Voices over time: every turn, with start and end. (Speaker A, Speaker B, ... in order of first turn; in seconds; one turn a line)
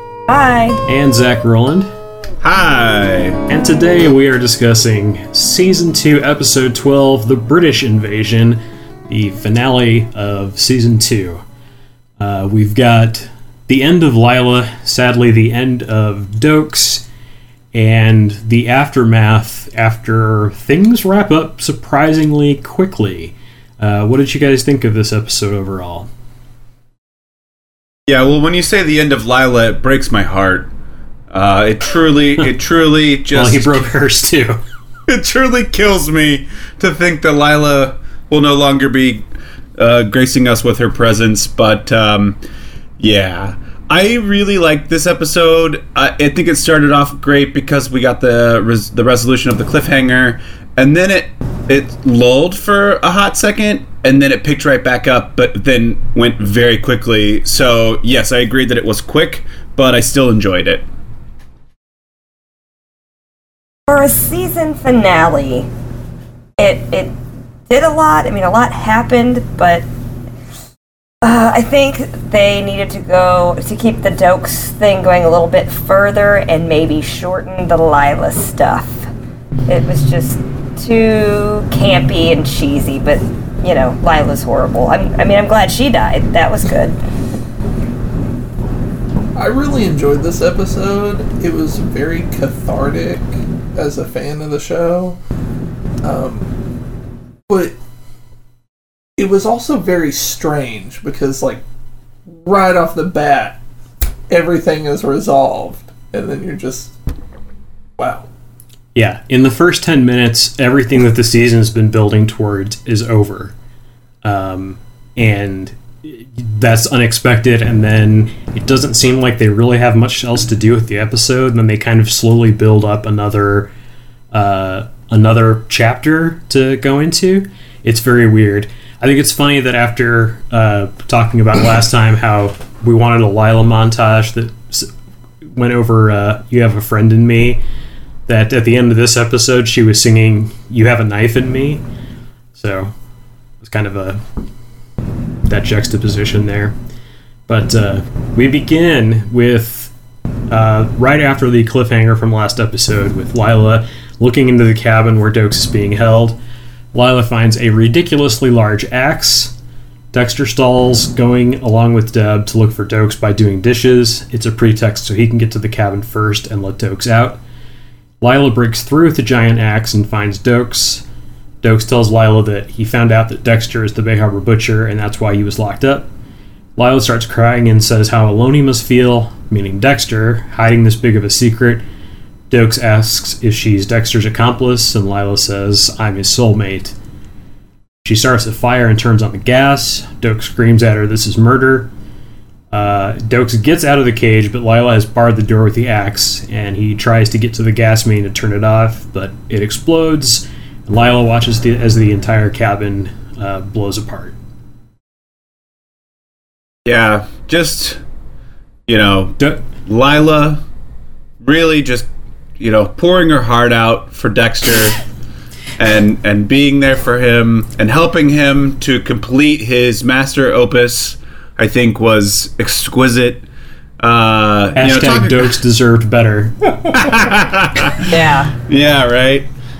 Speaker A: 0.3-0.8
Speaker B: 0.8-1.9
Speaker C: 2.4-3.4
Speaker B: 3.5-11.4
Speaker B: 12.2-17.0
Speaker B: 17.7-26.1
Speaker C: 28.1-30.7
Speaker C: 31.3-33.9
Speaker B: 33.3-34.6
Speaker C: 35.1-39.2
Speaker C: 39.8-42.4
Speaker C: 43.0-60.8
Speaker A: 63.9-65.7
Speaker A: 66.6-67.1
Speaker A: 67.7-69.8
Speaker A: 71.2-79.1
Speaker A: 79.7-87.0
Speaker D: 89.3-95.2
Speaker D: 96.0-96.5
Speaker D: 97.5-97.8
Speaker D: 99.2-101.6
Speaker D: 102.3-103.6
Speaker D: 104.3-106.9
Speaker D: 108.0-108.3
Speaker B: 108.9-113.5
Speaker B: 114.2-123.7
Speaker B: 124.3-134.9
Speaker B: 135.4-137.6
Speaker B: 138.3-141.8
Speaker B: 142.5-142.9
Speaker B: 143.6-144.2
Speaker B: 145.5-146.7
Speaker B: 147.5-149.9
Speaker B: 150.5-156.4
Speaker B: 156.9-159.5
Speaker B: 160.1-167.4
Speaker B: 168.2-171.0
Speaker B: 171.6-176.1
Speaker B: 176.8-181.8
Speaker B: 182.5-186.9
Speaker B: 188.0-191.9
Speaker B: 192.7-204.3
Speaker C: 206.8-208.0
Speaker C: 208.9-210.6
Speaker C: 211.4-212.1
Speaker C: 212.6-215.0
Speaker C: 215.8-223.4
Speaker C: 224.0-225.5
Speaker B: 224.8-226.8
Speaker C: 226.9-229.4
Speaker A: 228.0-228.5